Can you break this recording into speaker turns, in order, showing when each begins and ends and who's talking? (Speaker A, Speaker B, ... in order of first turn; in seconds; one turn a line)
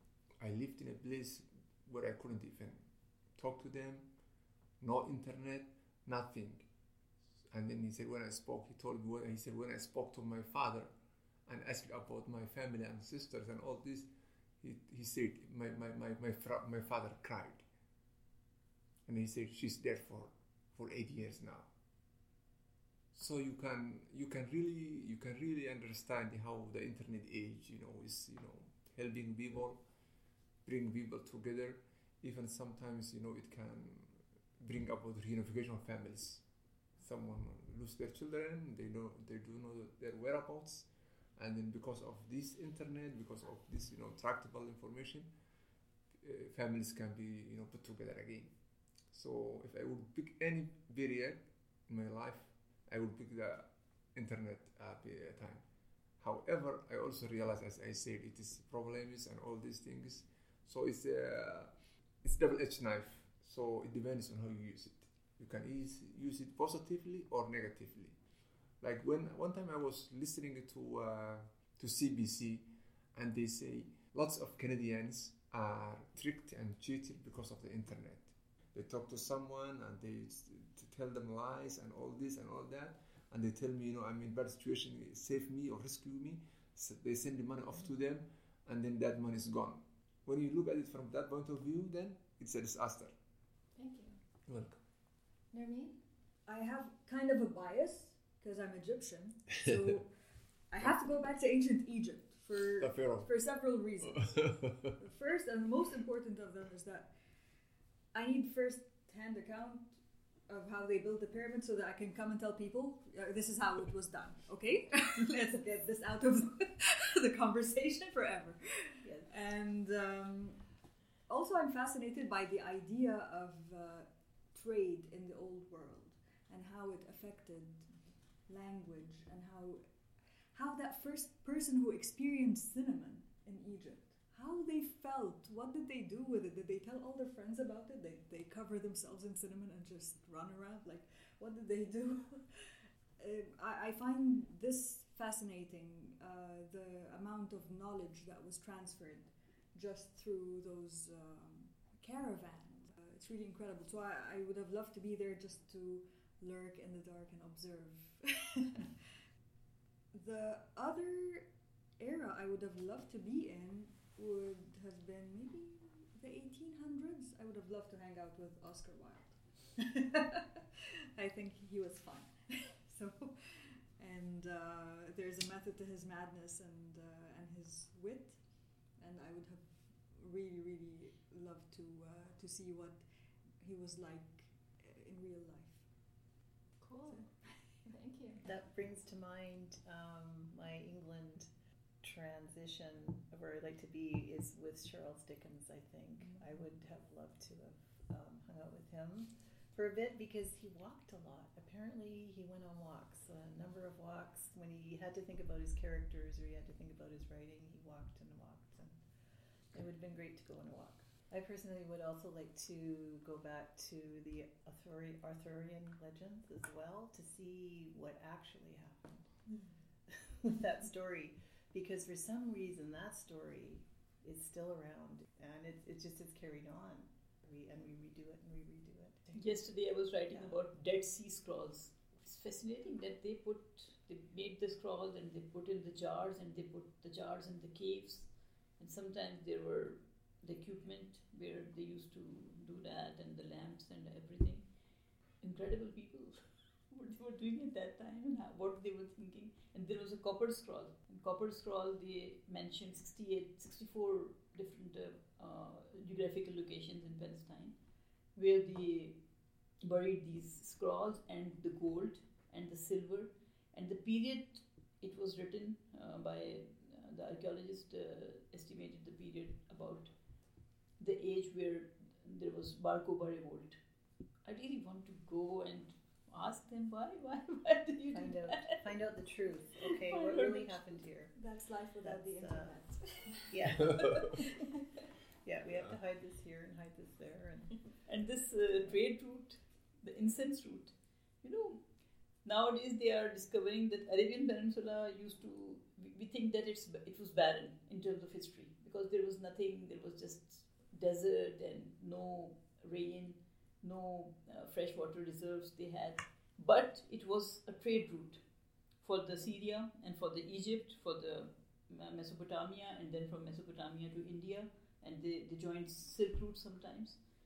Speaker A: 0.4-2.8
Speaker A: 3.4-4.1
Speaker A: 4.8-6.7
Speaker A: 7.5-10.9
Speaker A: 11.5-14.1
Speaker A: 14.6-17.6
Speaker A: 19.1-21.7
Speaker A: 23.1-29.8
Speaker A: 30.6-36.4
Speaker A: 37.0-45.3
Speaker A: 46.2-48.5
Speaker A: 49.1-55.6
Speaker A: 56.2-68.2
Speaker A: 68.8-93.1
Speaker B: 93.8-94.2
Speaker A: 94.5-94.8
Speaker B: 95.5-96.0
Speaker C: 96.5-100.1
Speaker C: 100.7-107.1
Speaker A: 102.8-103.3
Speaker A: 104.2-104.9
Speaker C: 108.1-120.6
Speaker D: 119.0-119.3
Speaker C: 121.3-127.9
Speaker C: 128.5-129.8
Speaker C: 130.5-159.1
Speaker C: 160.1-178.4
Speaker C: 179.0-183.0
Speaker C: 183.6-185.9
Speaker B: 186.8-187.3
Speaker B: 187.9-188.4
Speaker D: 188.4-191.5
Speaker D: 192.0-209.0
Speaker D: 209.7-219.3
Speaker D: 220.1-229.6
Speaker E: 229.3-244.7
Speaker D: 230.3-230.6
Speaker E: 245.4-257.8
Speaker E: 258.4-259.2
Speaker E: 259.8-270.1
Speaker E: 271.0-273.8
Speaker E: 274.4-278.9
Speaker D: 278.1-281.4
Speaker E: 279.8-280.8
Speaker C: 280.3-280.6
Speaker C: 281.3-284.7
Speaker D: 282.0-284.5
Speaker D: 285.4-287.8
Speaker E: 288.1-291.8
Speaker E: 292.4-308.4
Speaker E: 309.0-317.2